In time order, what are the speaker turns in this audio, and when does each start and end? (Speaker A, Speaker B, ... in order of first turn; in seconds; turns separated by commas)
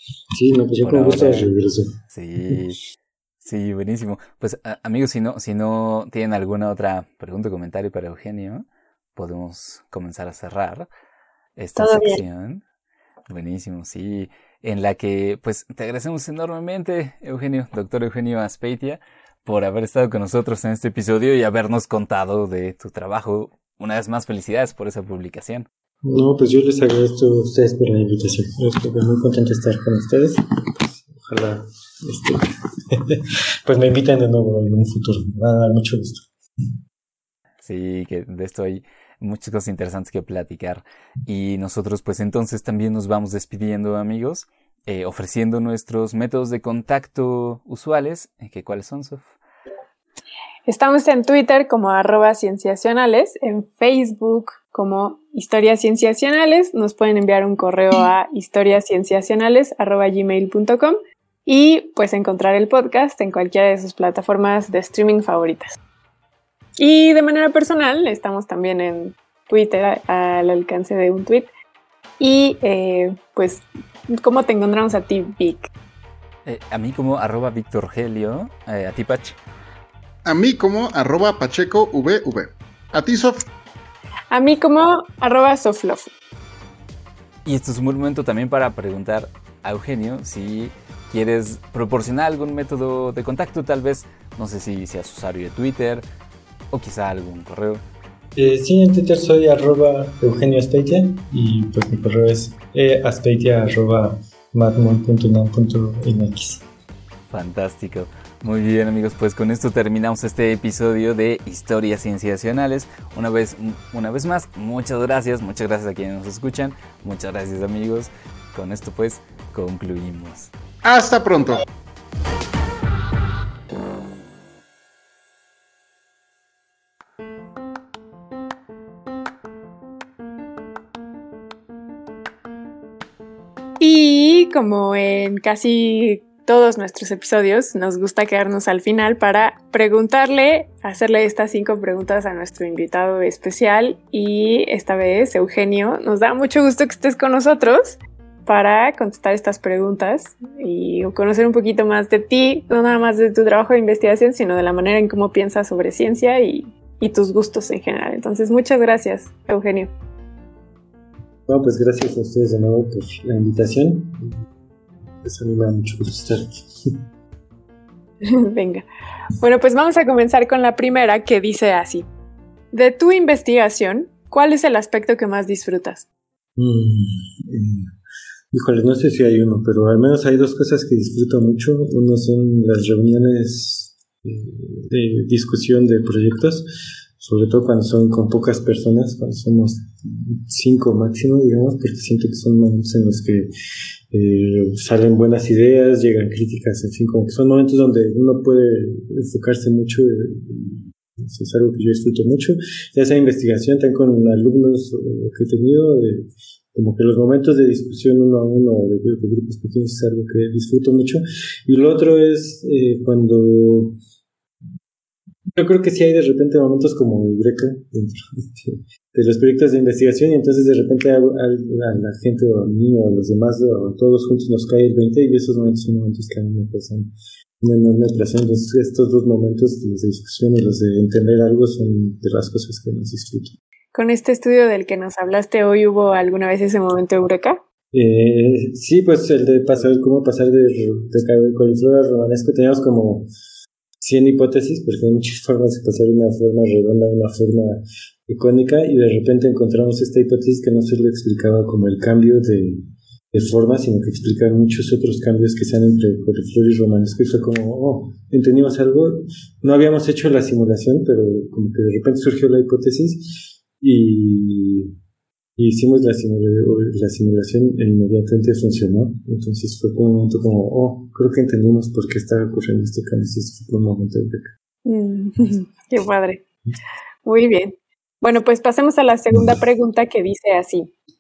Speaker A: 0.3-1.9, Speaker B: 0.8-1.5, Speaker B: 2.1-2.8, Speaker B: 3.4-8.7, Speaker B: 9.2-10.9, Speaker B: 11.6-12.6, Speaker C: 11.8-12.2, Speaker B: 13.3-25.7, Speaker A: 26.0-30.4, Speaker A: 31.0-36.2, Speaker B: 37.6-49.3, Speaker C: 50.7-65.8, Speaker C: 66.8-71.5, Speaker C: 72.2-73.7, Speaker C: 74.2-75.7, Speaker B: 76.5-79.4, Speaker D: 80.2-83.5, Speaker C: 84.3-86.1, Speaker B: 87.5-96.0, Speaker B: 96.7-97.8, Speaker A: 98.4-106.6, Speaker B: 107.3-120.5, Speaker D: 120.8-121.6, Speaker C: 133.8-159.9, Speaker A: 161.5-164.4, Speaker A: 165.2-166.9, Speaker C: 168.2-168.8, Speaker C: 169.4-172.1, Speaker C: 172.7-176.1, Speaker A: 176.6-177.9, Speaker A: 178.5-193.5, Speaker A: 194.1-214.0, Speaker A: 215.6-233.6, Speaker C: 233.9-237.6, Speaker A: 237.9-243.3, Speaker A: 244.0-264.9, Speaker A: 265.6-274.5, Speaker C: 274.9-276.4, Speaker C: 277.2-280.9